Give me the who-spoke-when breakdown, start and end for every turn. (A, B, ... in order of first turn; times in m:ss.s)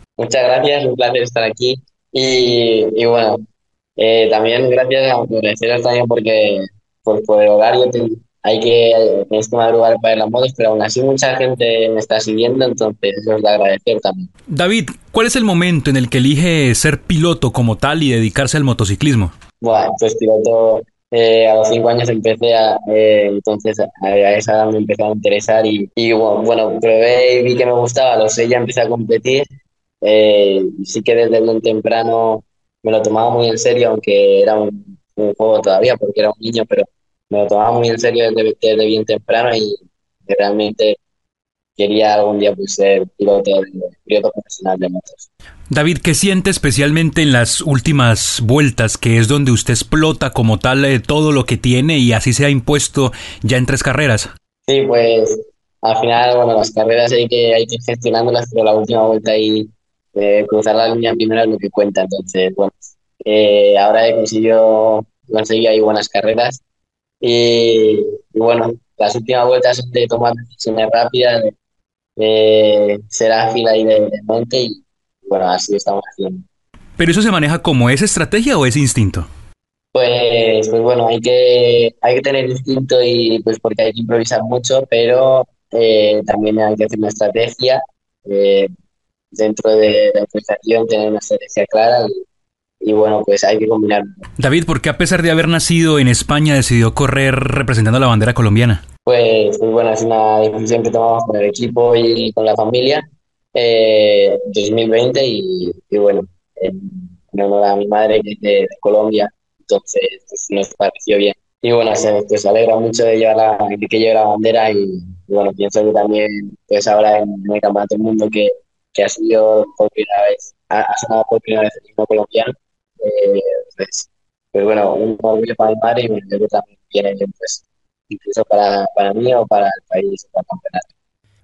0:00.2-0:03.4 A
0:04.0-0:14.3 A
0:14.5-0:19.3 B
0:19.6-0:29.5 A
0:30.0-0:41.0 A
0:41.8-0:45.3 A
0:45.7-0:54.3 B
0:54.7-1:06.6 A
1:07.2-1:11.5 A
1:12.2-1:16.4 A
1:17.0-1:19.3 B
1:19.9-1:28.7 A
1:29.3-1:32.2 A
1:32.8-1:34.2 A
1:34.4-1:38.8 B
1:39.1-2:10.9 A